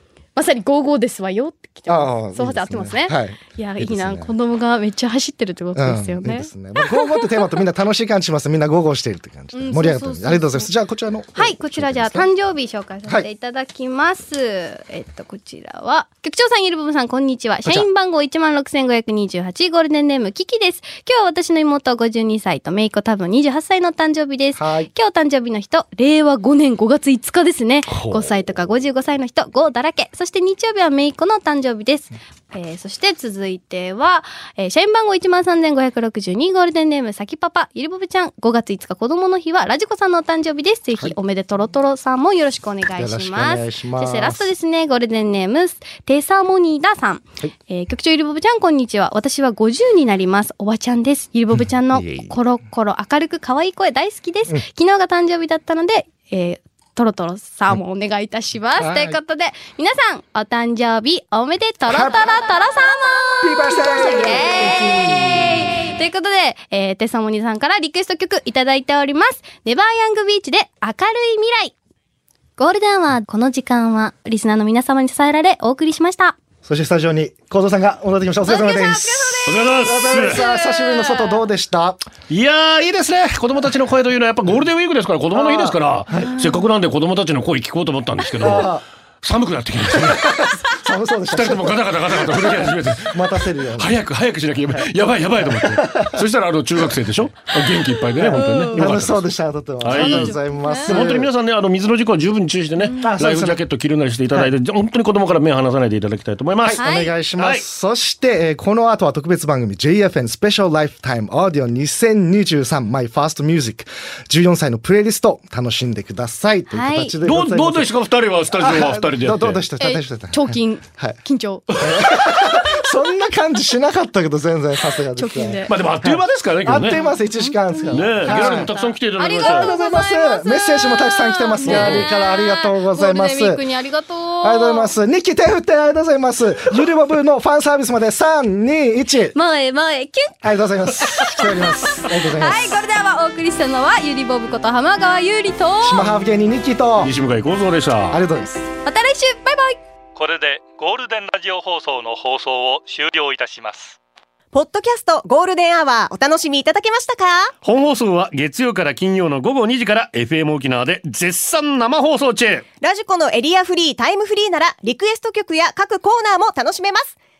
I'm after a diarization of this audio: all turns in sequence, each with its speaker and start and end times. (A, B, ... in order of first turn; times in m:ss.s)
0:00.4-0:07.6 A
0:01.9-0:04.3 B
0:05.7-0:12.3 B
0:09.5-0:10.7 A
0:11.3-1:11.7 A
0:24.6-0:24.9 B
0:27.9-0:28.4 B
0:43.0-0:44.5 B
0:51.6-0:52.3 B
0:58.8-0:59.2 B
1:01.9-1:02.3 B
1:03.4-1:05.7 B
1:12.6-1:16.4 A
1:16.6-1:22.0 B
1:18.4-1:21.4 A
1:19.4-1:20.4 C
1:22.3-1:30.4 C
1:25.3-1:26.4 B
1:26.1-1:26.6 A
1:28.4-1:28.8 B
1:29.9-1:33.9 B
1:31.3-1:33.2 C
1:33.7-1:39.2 C
1:35.4-1:36.2 B
1:38.1-1:38.9 A
1:38.2-1:41.3 B
1:39.8-1:46.8 C
1:39.9-1:41.0 A
1:42.8-1:43.1 A
1:43.0-1:43.6 B
1:46.6-1:57.9 B
1:46.7-1:47.1 A
1:47.4-1:47.6 C
1:56.7-1:57.1 A
1:57.2-1:59.6 C
1:58.5-2:01.2 B
1:59.8-2:01.6 A
2:01.8-2:08.7 B
2:05.2-2:05.7 A
2:05.7-2:07.0 C
2:06.9-2:14.9 A
2:07.9-2:09.7 C
2:09.4-2:13.6 B
2:11.6-2:12.1 C
2:14.4-2:19.3 B
2:19.3-2:20.4 A
2:20.4-2:22.8 B
2:21.0-2:26.0 A
2:25.8-2:27.1 B
2:27.0-2:28.2 C
2:28.1-2:28.6 B
2:28.8-2:29.8 A
2:30.1-2:34.0 D
2:34.5-2:37.5 E
2:37.6-2:42.6 C
2:42.8-2:47.2 E